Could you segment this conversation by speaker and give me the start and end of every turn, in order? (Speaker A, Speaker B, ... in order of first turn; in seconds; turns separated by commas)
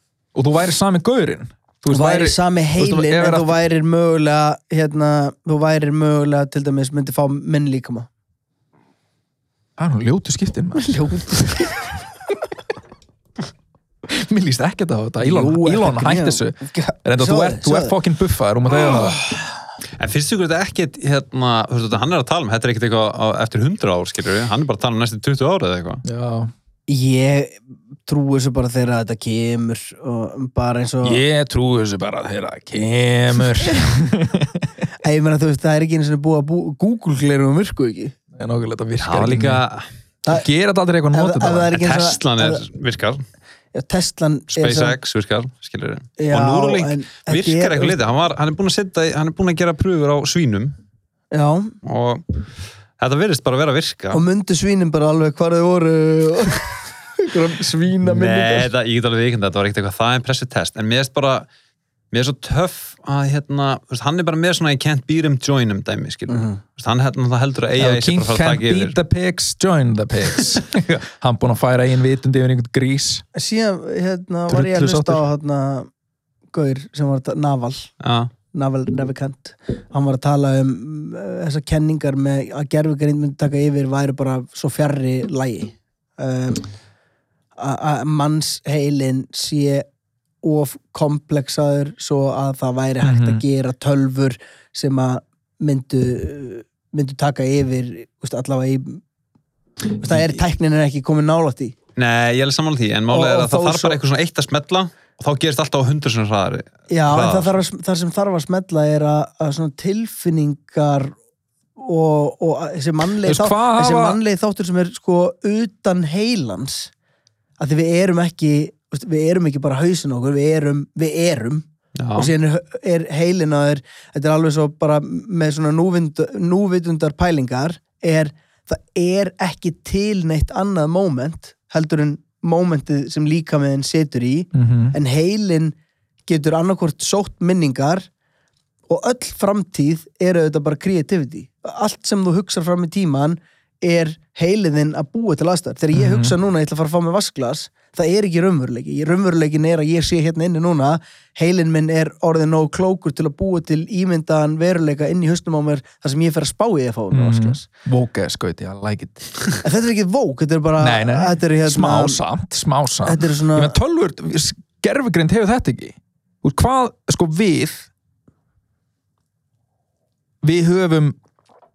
Speaker A: 0.3-3.6, Speaker B: 1.9-8.1, Speaker A: 9.8-11.8, Speaker B: 10.8-11.8, Speaker A: 14.1-19.2, Speaker B: 15.2-17.9, Speaker C: 18.9-19.2, Speaker C: 20.0-26.0, Speaker A: 26.0-26.5, Speaker B: 26.9-31.2, Speaker A: 31.0-34.7, Speaker B: 33.6-34.0, Speaker B: 35.0-38.1, Speaker A: 38.4-39.6, Speaker C: 39.0-39.9, Speaker A: 40.3-41.7, Speaker B: 41.1-42.6, Speaker C: 41.7-43.2, Speaker B: 43.7-45.0, Speaker C: 44.5-50.8, Speaker B: 46.2-48.0, Speaker B: 51.3-51.8, Speaker C: 51.8-52.2, Speaker C: 53.0-54.2, Speaker B: 54.1-58.7, Speaker C: 58.0-61.5, Speaker C: 62.1-69.0, Speaker B: 66.3-66.6, Speaker A: 67.8-73.2, Speaker B: 73.3-75.9, Speaker A: 74.5-75.2, Speaker B: 76.5-77.9, Speaker C: 78.0-78.3, Speaker B: 78.5-86.7, Speaker B: 87.6-89.9, Speaker B: 90.4-99.0, Speaker A: 93.0-93.4, Speaker B: 100.0-101.8, Speaker C: 102.0-107.5, Speaker B: 103.1-104.0, Speaker B: 106.9-111.2, Speaker B: 111.8-116.9, Speaker A: 113.3-114.2, Speaker B: 117.6-138.1, Speaker C: 122.0-122.3, Speaker A: 134.5-134.9, Speaker B: 138.9-157.7, Speaker A: 145.9-146.3, Speaker A: 157.1-159.6, Speaker B: 159.6-162.2, Speaker A: 160.8-167.9, Speaker B: 163.1-163.8, Speaker A: 170.4-171.2